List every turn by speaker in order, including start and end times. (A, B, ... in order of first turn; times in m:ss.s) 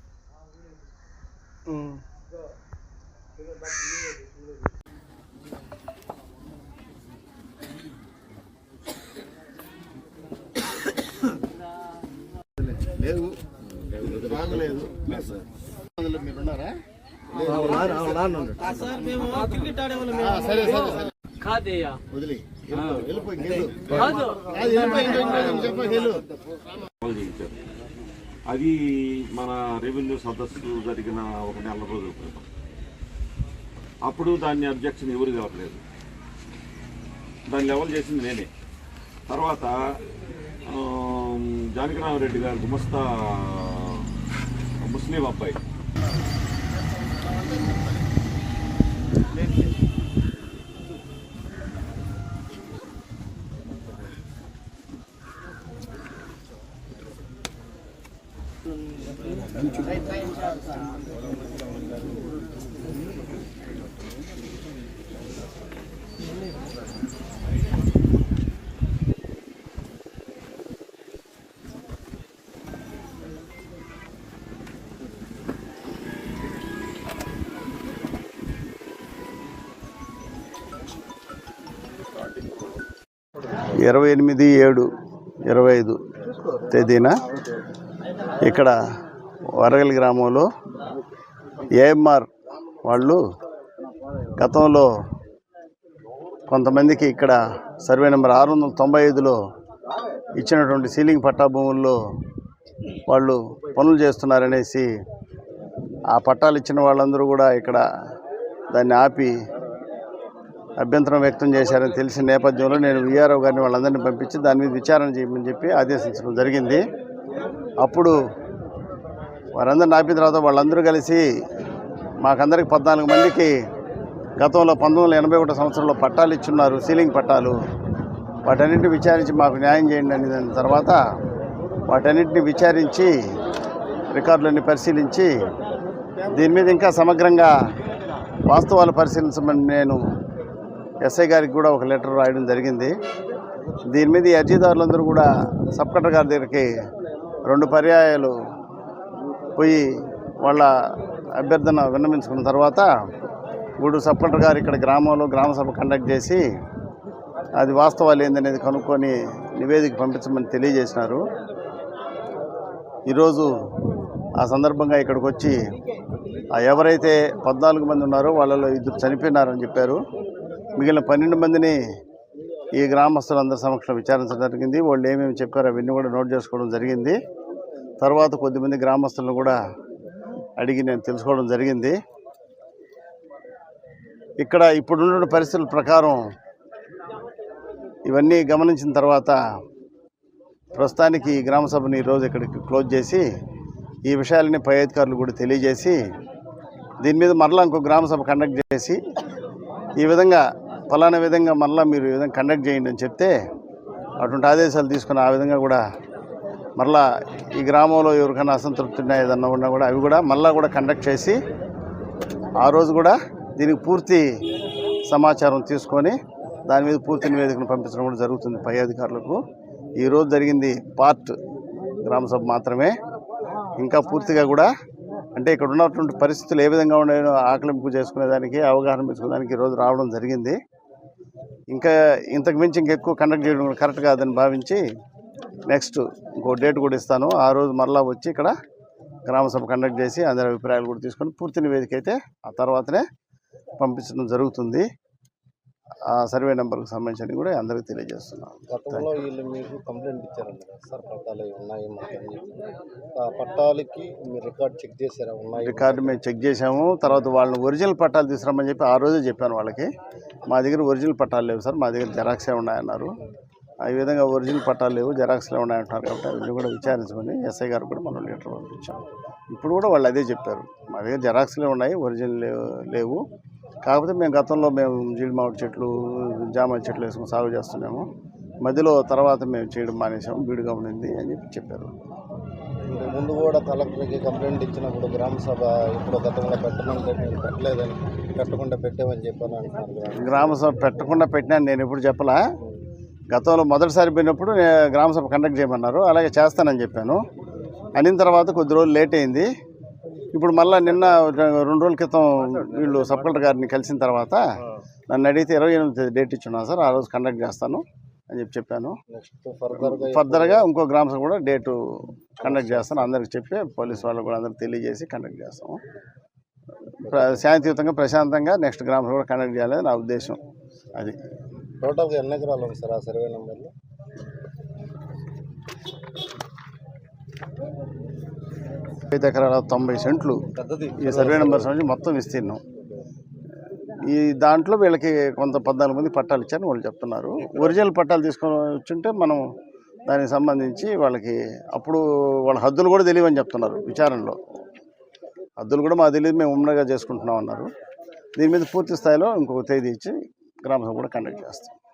0:12.8-0:13.3 A
0:14.0-0:15.4 B
0:14.2-0:15.0 A
0:16.0-0:16.7 A
0:17.7-0:18.0 B
0:20.1-0:21.0 A
0:22.9-0:23.6 A
0:23.6-0:24.2 B
0:24.5-0:26.1 A
0:27.0-0:27.6 B
0:28.5-0:32.5 B
0:34.0-0:35.8 B
0:37.5-0:38.5 B
0:39.3-0:39.8 B
0:40.7-0:44.0 B
0:44.8-0:45.6 B
1:23.8-1:24.9 A
1:25.5-1:26.0 A
1:26.5-1:27.2 A
1:28.4-1:28.7 A
1:29.6-1:30.5 A
1:31.8-1:32.3 A
1:32.8-1:33.2 A
1:34.4-1:34.9 A
1:36.5-1:39.4 A
1:40.4-1:42.0 A
1:43.1-1:44.9 A
1:46.1-1:47.8 A
1:48.7-1:49.3 A
1:50.8-1:56.8 A
1:57.8-1:58.2 A
1:59.6-2:01.2 A
2:02.2-2:03.5 A
2:04.4-2:07.6 A
2:08.4-2:11.0 A
2:11.9-2:13.1 A
2:14.1-2:15.3 A
2:16.3-2:17.5 A
2:18.5-2:20.0 A
2:21.0-2:22.9 A
2:23.9-2:26.7 A
2:27.5-2:28.3 A
2:29.6-2:29.8 A
2:31.4-2:32.9 A
2:33.8-2:36.4 A
2:37.6-2:41.2 A
2:43.1-2:43.5 A
2:44.4-2:45.6 A
2:46.6-2:50.0 A
2:50.8-2:51.8 A
2:52.8-2:57.2 A
2:58.0-2:59.6 A
3:00.6-3:02.0 A
3:04.4-3:06.2 A
3:08.1-3:09.4 A
3:10.8-3:13.2 A
3:14.1-3:16.0 A
3:17.0-3:19.0 A
3:20.0-3:23.3 A
3:24.2-3:25.8 A
3:26.8-3:27.0 A
3:27.6-3:31.4 A
3:32.6-3:34.2 A
3:35.1-3:36.2 A
3:36.7-3:39.4 A
3:40.0-3:41.4 A
3:42.0-3:42.9 A
3:43.8-3:44.7 A
3:45.4-3:50.6 A
3:51.7-3:54.8 A
3:55.7-3:58.5 A
3:59.3-4:03.0 A
4:03.8-4:04.8 A
4:06.1-4:09.2 A
4:08.7-4:12.5 C
4:13.2-4:16.1 C
4:15.6-4:19.9 A
4:20.5-4:23.1 A
4:23.8-4:29.0 A
4:29.5-4:33.2 A
4:33.8-4:38.1 A
4:38.6-4:41.9 A
4:42.9-4:50.6 C
4:50.2-4:52.4 A
4:53.3-4:57.2 A
4:58.0-4:59.5 A
5:00.3-5:04.4 A
5:05.1-5:09.0 A
5:09.1-5:10.7 C
5:09.8-5:11.8 A
5:12.4-5:15.8 A
5:12.4-5:13.1 C
5:17.0-5:20.4 A
5:17.0-5:17.5 C
5:21.8-5:23.7 C
5:29.1-5:30.4 A
5:30.5-5:31.7 C
5:31.0-5:32.6 A
5:34.1-5:39.4 A
5:40.1-5:44.4 A
5:45.6-5:47.7 A
5:48.4-5:51.8 A